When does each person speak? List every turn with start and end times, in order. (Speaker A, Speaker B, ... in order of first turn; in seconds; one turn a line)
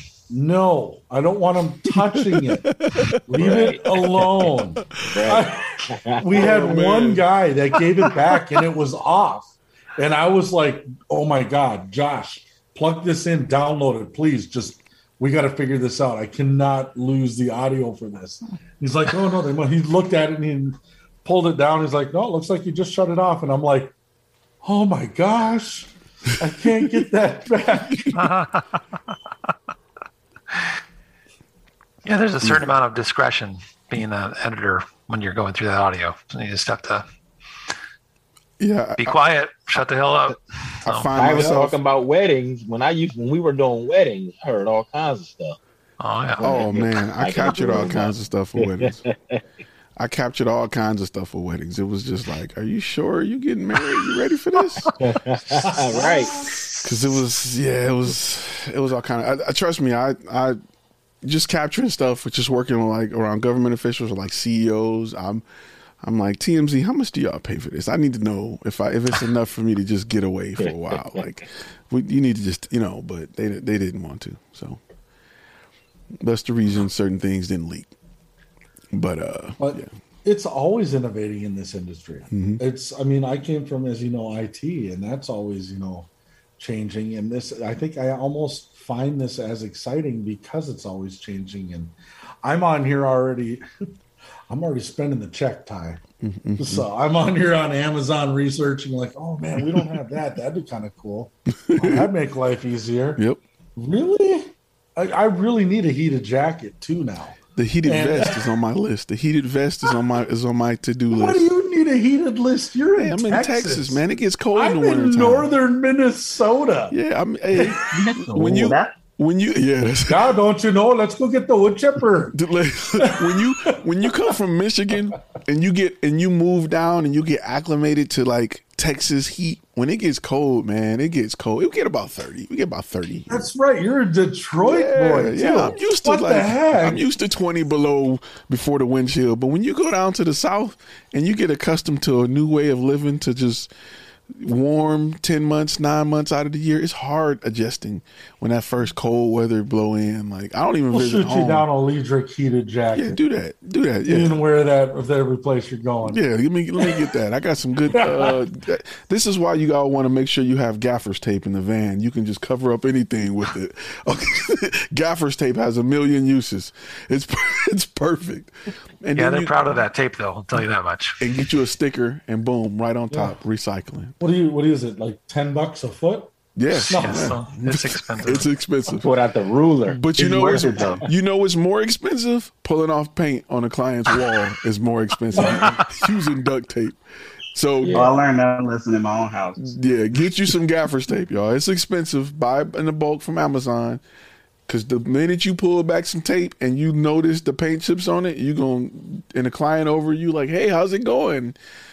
Speaker A: 0.3-5.6
Speaker B: 2.0-3.6
Speaker C: 3.4-4.3
Speaker C: 5.0-6.4
Speaker A: 6.2-23.9
Speaker B: 6.3-7.2
Speaker A: 24.6-28.3
Speaker B: 27.9-28.2
Speaker D: 28.1-28.6
Speaker D: 32.0-37.0
Speaker B: 32.4-32.7
Speaker B: 38.6-39.2
Speaker D: 39.0-41.5
Speaker B: 40.8-41.8
Speaker C: 41.0-45.6
Speaker D: 46.0-46.8
Speaker C: 46.4-49.4
Speaker B: 46.4-49.0
Speaker B: 50.0-54.9
Speaker C: 55.0-56.5
Speaker B: 56.8-60.6
Speaker B: 61.2-65.4
Speaker B: 66.0-74.8
Speaker C: 70.6-71.2
Speaker B: 76.2-77.9
Speaker B: 78.9-79.9
Speaker A: 79.6-93.6
Speaker B: 82.3-82.6
Speaker A: 94.5-96.0
Speaker B: 96.2-96.9
Speaker A: 96.6-103.2
Speaker B: 101.7-102.1
Speaker A: 103.8-108.5
Speaker B: 107.5-111.5
Speaker A: 111.1-116.9
Speaker B: 113.0-115.5
Speaker B: 116.9-120.2
Speaker A: 117.6-117.9
Speaker E: 117.9-119.0
Speaker A: 120.1-122.3
Speaker B: 122.3-133.4
Speaker A: 123.0-123.8
Speaker A: 133.3-137.0
Speaker B: 134.6-143.7
Speaker B: 144.4-151.7
Speaker A: 150.9-153.2
Speaker B: 152.9-154.4
Speaker A: 154.0-156.2
Speaker B: 156.0-169.6
Speaker A: 157.9-158.4
Speaker D: 169.1-171.2
Speaker B: 171.2-174.1
Speaker A: 174.2-177.7
Speaker B: 176.6-179.1
Speaker D: 176.7-178.5
Speaker C: 179.0-181.0
Speaker B: 179.9-187.0
Speaker E: 180.2-181.0
Speaker A: 185.3-185.7
Speaker D: 185.7-186.0
Speaker B: 187.5-188.1
Speaker C: 187.8-188.2
Speaker E: 187.9-189.8
Speaker B: 189.6-194.0
Speaker B: 194.7-201.6